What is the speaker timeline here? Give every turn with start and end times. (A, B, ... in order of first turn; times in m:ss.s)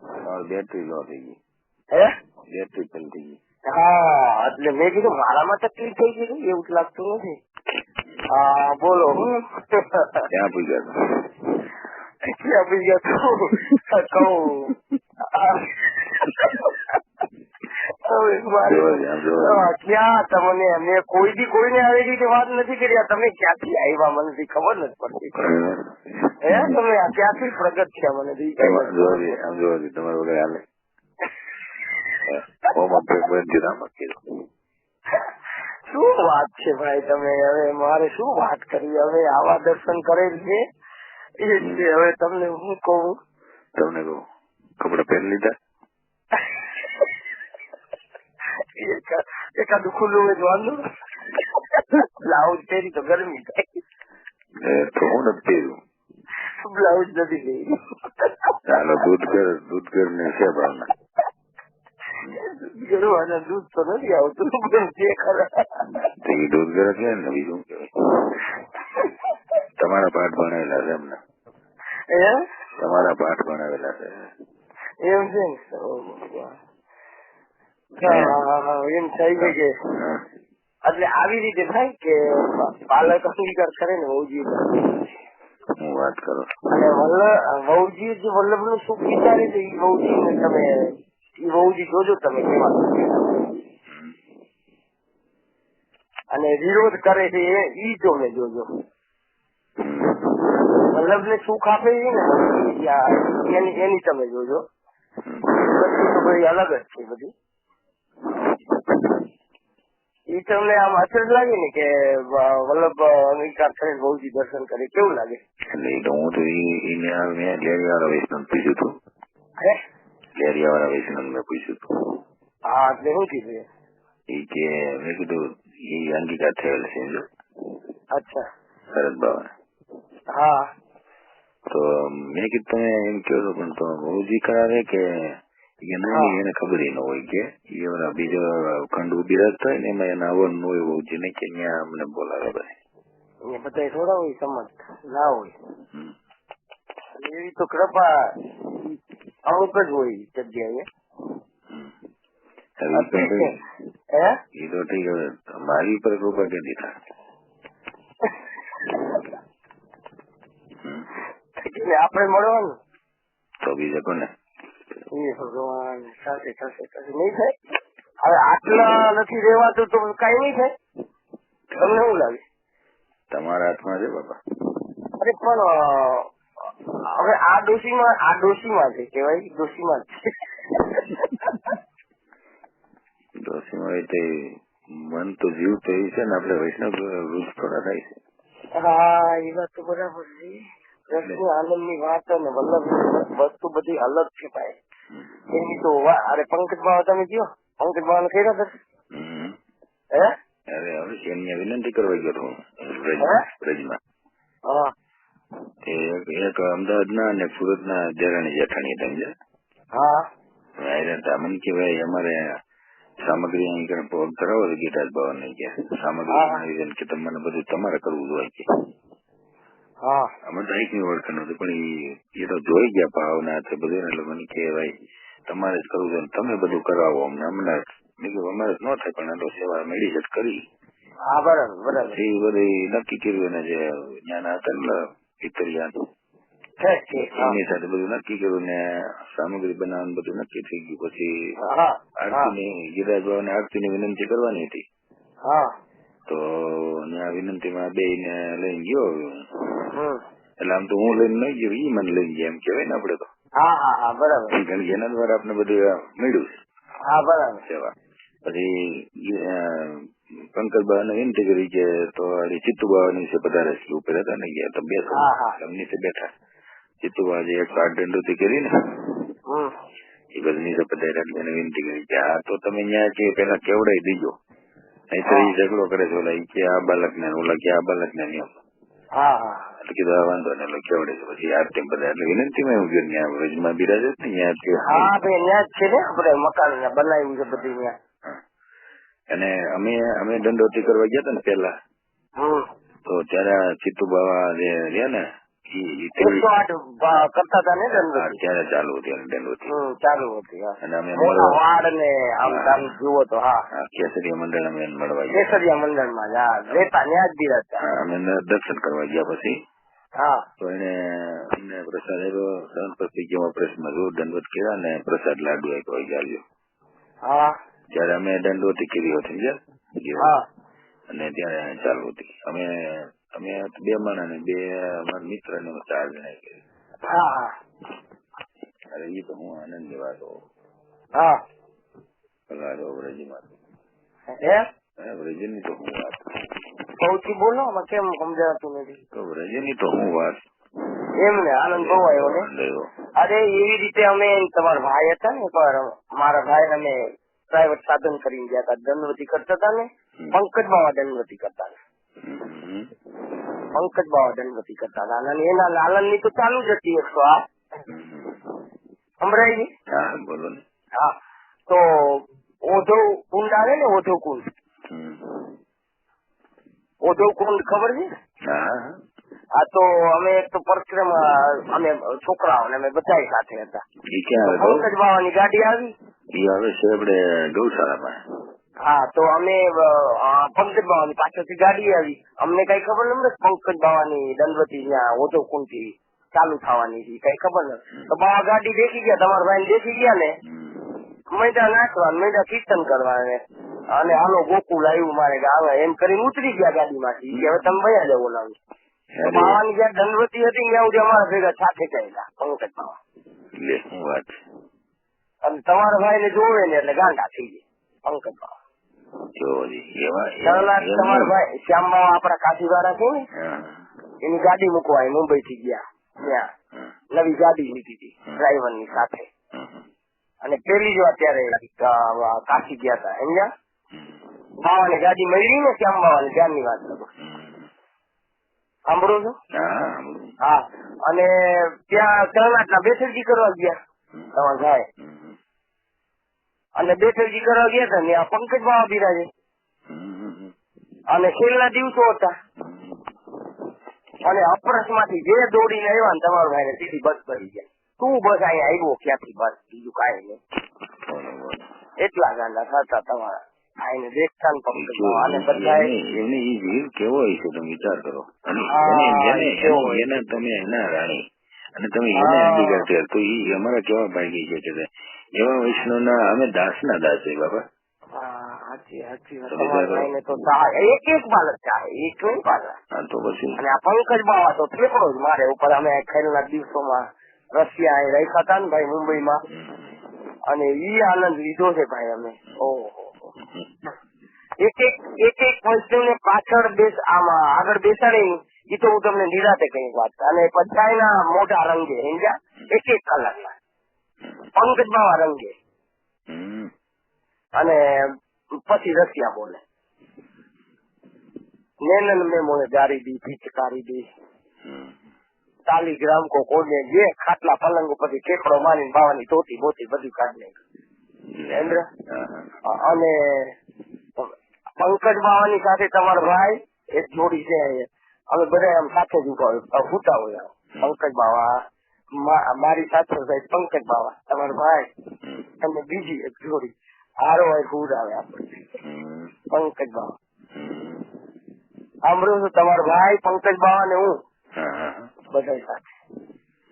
0:00.2-0:01.4 A
0:02.5-0:03.4 A
0:03.7-0:07.4 B
0:08.3-0:10.3 B
0:10.3-0:11.3 A
0:12.2-0:14.7 B
0:15.3-0:17.0 B
0:18.0-0:25.4 B
0:18.6-0:19.7 A
0:25.3-0:26.8 A
0:26.4-0:29.3 B
0:28.6-0:30.6 A
0:32.2-0:34.2 A
0:35.9-0:40.6 B
0:41.4-0:43.2 B
0:41.6-0:41.8 A
0:43.8-0:44.2 A
0:44.8-0:45.5 A
0:48.8-0:50.8 B
0:51.7-0:53.6 B
0:54.6-0:55.8 A
0:56.6-0:58.6 B
0:58.6-1:00.9 A
1:02.3-1:05.9 B
1:05.9-1:07.9 A
1:08.9-1:09.2 B
1:09.8-1:11.2 A
1:12.1-1:12.4 B
1:12.8-1:14.1 A
1:15.0-1:16.6 B
1:18.0-1:19.7 B
1:18.0-1:18.4 A
1:19.3-1:20.2 A
1:20.9-1:24.9 B
1:25.8-1:26.5 A
1:26.7-1:30.9 B
1:31.4-1:33.6 B
1:36.3-1:38.7 B
1:39.8-1:40.4 A
1:40.9-1:44.6 B
1:45.2-1:45.7 A
1:45.5-1:47.3 B
1:50.3-1:55.4 B
1:55.7-1:58.9 A
2:00.4-2:02.2 A
2:02.7-2:03.6 B
2:04.3-2:07.2 A
2:08.2-2:08.4 B
2:08.9-2:09.5 A
2:10.3-2:10.6 B
2:11.7-2:15.0 A
2:15.8-2:22.7 A
2:16.1-2:16.4 B
2:23.5-2:25.5 B
2:27.2-2:30.8 B
2:32.8-2:33.6 A
2:32.9-2:33.5 B
2:34.6-2:36.9 A
2:38.2-2:39.3 B
2:40.8-2:41.1 A
2:41.6-2:42.7 B
2:43.6-2:44.3 A
2:45.1-2:47.5 B
2:48.2-2:50.7 B
2:51.7-2:52.0 A
2:51.8-2:52.4 B
2:53.3-2:54.4 A
2:55.2-2:56.3 B
2:56.8-3:01.8 B
3:03.4-3:08.1 A
3:08.8-3:14.8 B
3:11.1-3:11.4 A
3:15.1-3:15.8 A
3:15.5-3:18.7 B
3:19.1-3:19.5 A
3:20.7-3:24.0 A
3:24.7-3:24.9 B
3:25.8-3:29.3 A
3:30.0-3:30.2 B
3:30.8-3:32.4 A
3:33.2-3:38.6 A
3:36.3-3:36.6 B
3:40.0-3:40.3 B
3:40.4-3:44.9 A
3:45.5-3:50.6 A
3:51.3-3:52.2 B
3:52.0-3:55.9 A
3:56.8-3:57.6 B
3:57.1-4:01.6 A
4:01.6-4:02.5 B
4:02.2-4:04.8 A
4:06.3-4:09.9 A
4:09.9-4:10.2 B
4:10.6-4:13.3 A
4:13.6-4:14.6 B
4:14.5-4:16.5 A
4:17.1-4:17.6 B
4:17.6-4:17.9 A
4:19.2-4:20.0 A
4:20.5-4:26.3 A
4:25.1-4:25.6 B
4:27.0-4:29.3 A
4:29.5-4:29.7 B
4:30.3-4:34.3 A
4:35.1-4:38.5 A
4:35.2-4:35.5 B
4:39.2-4:39.7 B
4:39.8-4:45.1 A
4:44.8-4:47.9 B
4:49.3-4:51.7 A
4:52.4-4:52.7 B
4:53.0-4:55.2 A
4:55.7-4:56.5 A
4:56.2-4:58.4 B
4:57.9-4:59.7 A
4:59.7-5:03.6 B
5:00.8-5:01.6 A
5:02.5-5:02.9 A
5:03.7-5:05.6 A
5:05.3-5:07.8 B
5:07.8-5:09.6 A
5:10.2-5:10.4 B
5:10.6-5:16.4 A
5:17.2-5:17.5 B
5:17.9-5:20.3 A
5:21.1-5:26.6 A
5:27.0-5:27.5 B
5:28.9-5:30.4 A
5:32.5-5:33.5 A
5:34.3-5:34.6 B
5:35.0-5:36.2 A
5:37.0-5:39.0 B
5:39.1-5:40.4 A
5:41.2-5:42.5 B
5:41.7-5:42.9 A
5:43.2-5:51.8 B
5:52.2-5:52.9 A
5:53.7-5:57.4 B
5:57.9-5:58.4 A
5:59.2-5:59.7 B
5:59.9-6:00.6 A
6:01.7-6:04.5 B
6:04.9-6:05.5 A
6:07.0-6:08.1 B
6:08.5-6:09.0 A
6:09.6-6:13.8 B
6:14.1-6:14.9 A
6:14.4-6:15.9 B
6:16.3-6:18.2 A
6:18.8-6:30.4 B
6:30.4-6:31.0 A
6:31.3-6:33.4 B
6:33.9-6:38.6 B
6:37.3-6:37.8 A
6:39.1-6:39.6 A
6:39.2-6:43.0 B
6:43.6-6:44.4 A
6:45.4-6:48.5 B
6:49.4-6:51.3 A
6:50.4-6:53.3 B
6:53.4-6:53.8 A
6:54.2-6:56.5 B
6:57.1-6:59.3 B
6:59.5-6:59.8 A
7:00.4-7:03.5 B
7:04.6-7:07.1 B
7:07.2-7:07.7 A
7:08.9-7:09.4 B
7:09.5-7:10.3 A
7:10.4-7:13.8 B
7:14.3-7:14.8 B
7:15.0-7:15.4 A
7:16.8-7:19.3 B
7:19.9-7:20.5 A
7:21.1-7:22.3 B
7:22.6-7:23.0 A
7:24.2-7:30.4 B
7:31.1-7:31.6 A
7:32.0-7:35.9 B
7:34.7-7:41.2 A
7:38.7-7:40.1 B
7:41.8-7:47.6 A
7:42.1-7:42.9 B
7:48.2-7:52.8 B
7:49.5-7:50.1 A
7:52.9-7:53.6 A
7:53.6-7:59.4 B
7:59.5-8:00.0 A
8:00.5-8:03.1 B
8:03.4-8:03.7 A
8:04.6-8:13.5 B
8:14.6-8:15.5 B
8:16.3-8:16.7 A
8:18.6-8:19.6 B
8:21.8-8:24.1 B
8:24.6-8:24.9 A
8:25.7-8:30.6 B
8:31.3-8:32.5 A
8:31.6-8:31.9 B
8:32.6-8:33.5 B
8:34.2-8:41.5 B
8:42.2-8:44.9 B
8:45.6-8:48.6 B
8:48.8-8:49.3 A
8:49.5-8:50.1 B
8:50.5-8:51.1 A
8:52.1-8:54.1 B
8:54.6-8:55.1 A
8:55.3-8:55.9 B